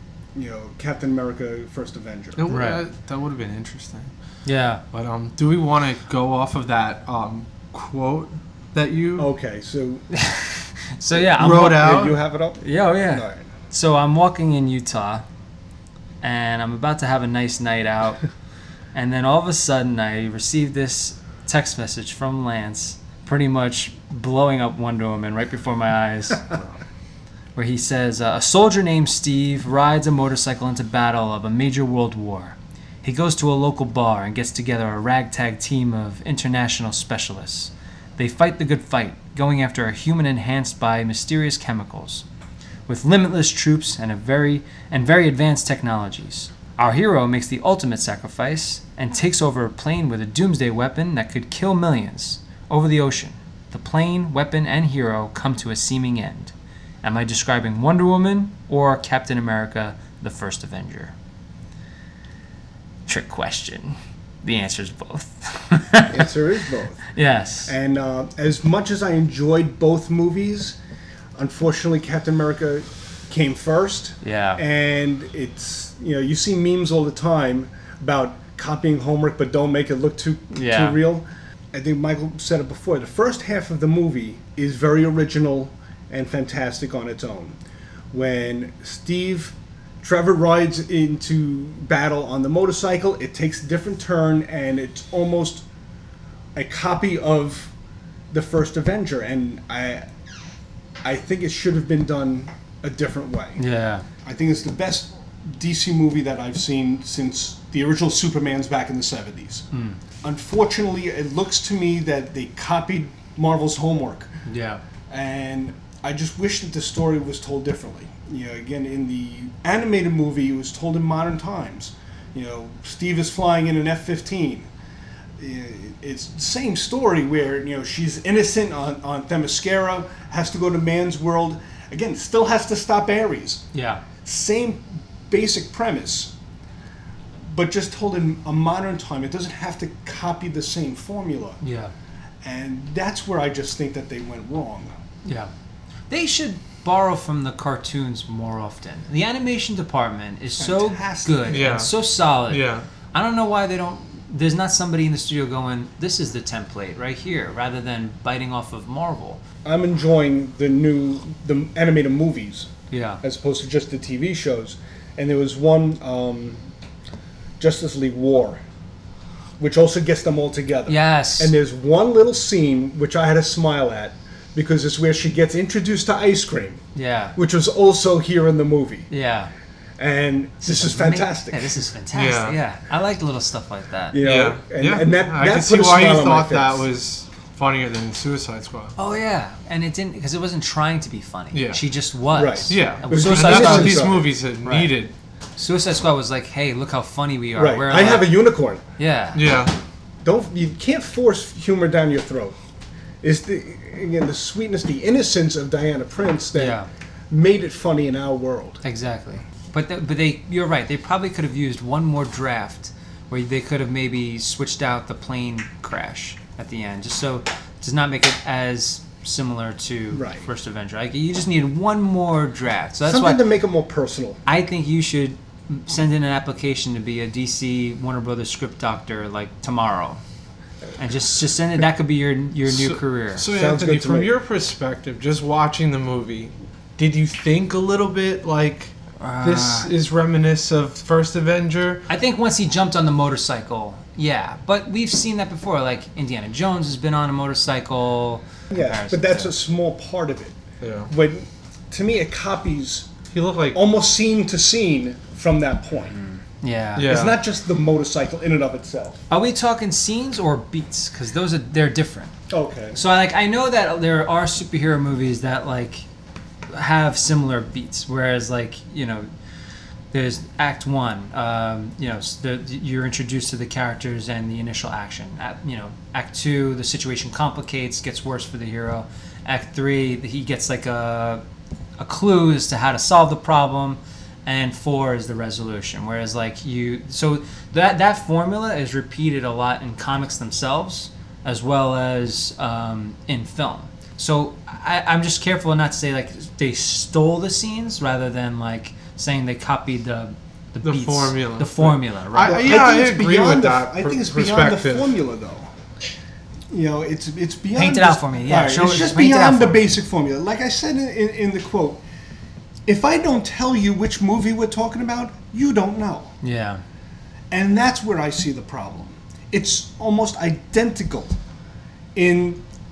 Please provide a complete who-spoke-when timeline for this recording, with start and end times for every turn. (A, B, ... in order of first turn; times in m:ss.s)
0:00.3-0:02.4 A
0:02.4-0:04.1 B
0:02.5-0:02.8 C
0:04.4-0:04.8 C
0:04.9-0:09.3 B
0:09.2-0:10.1 A
0:10.1-0:12.0 C
0:11.1-0:13.5 A
0:11.4-0:12.2 B
0:12.6-0:15.2 C
0:16.2-0:18.2 C
0:18.9-0:26.6 C
0:27.6-0:42.2 C
0:42.9-1:01.1 C
1:03.1-1:06.2 C
1:06.1-1:07.0 A
1:07.1-1:07.7 C
1:07.6-1:10.8 A
1:11.4-1:27.6 A
1:14.2-1:14.6 C
1:20.5-1:21.0 C
1:28.1-1:35.6 A
1:36.5-1:37.7 A
1:38.3-1:40.1 A
1:41.0-1:43.6 A
1:43.6-1:44.0 C
1:44.2-1:49.6 A
1:49.7-1:50.0 C
1:50.2-1:54.3 A
1:54.4-1:54.8 C
1:55.1-2:04.7 A
2:05.4-2:13.6 A
2:13.7-2:14.0 C
2:14.2-2:16.3 A
2:17.4-2:21.6 A
2:21.6-2:21.9 C
2:22.4-2:24.9 A
2:25.2-2:25.5 C
2:26.1-2:39.4 C
2:30.6-2:31.6 A
2:31.5-2:32.8 B
2:39.6-2:46.6 A
2:42.9-2:43.2 C
2:47.6-2:48.6 A
2:49.6-2:56.8 A
2:50.9-2:51.5 C
2:56.9-2:57.4 C
2:57.4-2:59.1 A
2:59.1-2:59.5 C
3:00.0-3:01.7 A
3:00.6-3:04.2 C
3:02.1-3:02.6 B
3:04.1-3:06.8 A
3:04.2-3:08.9 B
3:09.0-3:14.1 C
3:11.5-3:11.8 B
3:12.3-3:14.2 A
3:12.7-3:15.1 B
3:14.6-3:14.9 C
3:15.6-3:18.3 C
3:17.6-3:18.8 A
3:19.0-3:19.4 C
3:19.3-3:19.7 B
3:20.2-3:22.6 A
3:23.2-3:26.8 A
3:26.6-3:26.9 C
3:27.3-3:28.8 A
3:28.8-3:43.4 C
3:40.1-3:40.4 A
3:43.0-3:44.4 A
3:44.4-3:50.2 C
3:51.0-3:53.4 C
3:52.7-4:02.1 B
3:53.4-3:54.3 A
3:59.2-3:59.9 C
4:02.1-4:09.5 C
4:08.7-4:13.1 A
4:10.8-4:11.1 B
4:13.3-4:13.8 B
4:13.7-4:16.2 A
4:16.2-4:17.1 C
4:17.0-4:17.4 B
4:17.0-4:19.2 A
4:19.3-4:22.3 C
4:22.5-4:23.0 A
4:22.9-4:26.1 C
4:26.7-4:29.3 C
4:30.1-4:41.4 C
4:42.0-5:02.7 C
5:00.8-5:05.2 B
5:02.4-5:05.7 A
5:06.7-5:12.0 A
5:07.8-5:09.9 C
5:12.8-5:16.3 A
5:16.4-5:16.8 C
5:17.5-5:21.4 A
5:22.1-5:22.6 A